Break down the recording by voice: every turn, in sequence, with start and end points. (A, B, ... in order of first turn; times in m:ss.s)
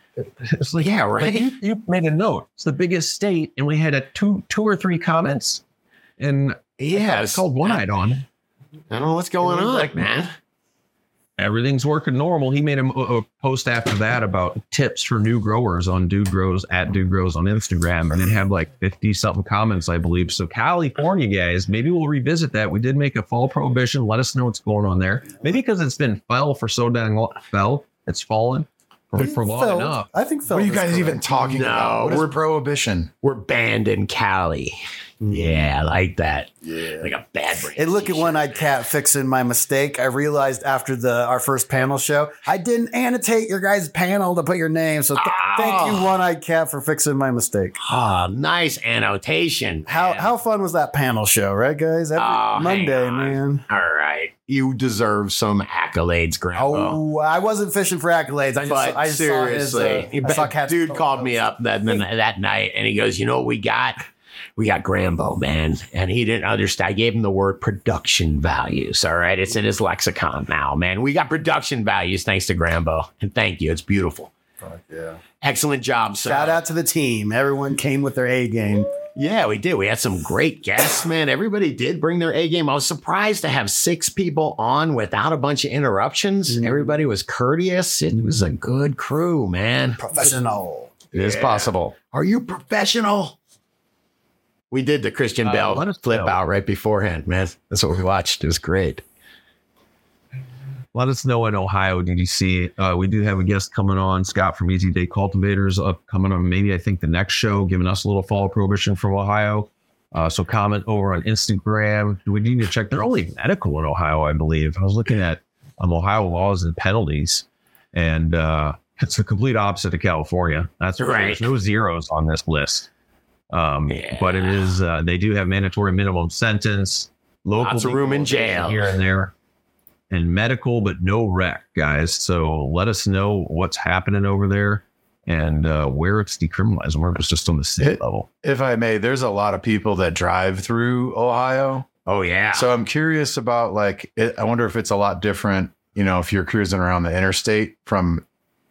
0:00.2-0:05.6 A
0:00.8-0:01.5 B
0:06.2-0:08.2 A
0:06.8-0:07.8 B
0:08.9-0:10.3 B
0:11.4-0:30.1 A
0:29.2-0:31.7 C
0:30.5-0:33.1 D
0:31.5-0:32.3 B
0:33.2-0:34.8 B
0:35.2-0:35.7 C
0:35.3-0:38.7 B
0:37.8-0:47.8 C
0:45.2-0:46.1 B
0:47.8-0:50.3 B
0:49.9-0:53.6 C
0:52.2-0:57.0 B
0:56.5-1:01.4 C
0:58.6-1:04.0 B
1:04.6-1:14.3 B
1:14.6-1:15.2 C
1:15.4-1:16.6 B
1:16.2-1:18.9 C
1:19.2-1:30.3 B
1:26.5-1:27.0 C
1:30.0-1:30.9 C
1:31.1-1:33.4 B
1:31.1-1:31.9 D
1:34.7-1:39.0 B
1:35.4-1:36.4 A
1:40.9-2:02.9 A
2:01.0-2:01.5 B
2:03.5-2:09.3 A
2:03.9-2:04.7 B
2:07.6-2:08.9 B
2:10.1-2:18.3 A
2:17.8-2:21.9 D
2:22.0-2:22.7 B
2:22.5-2:28.2 D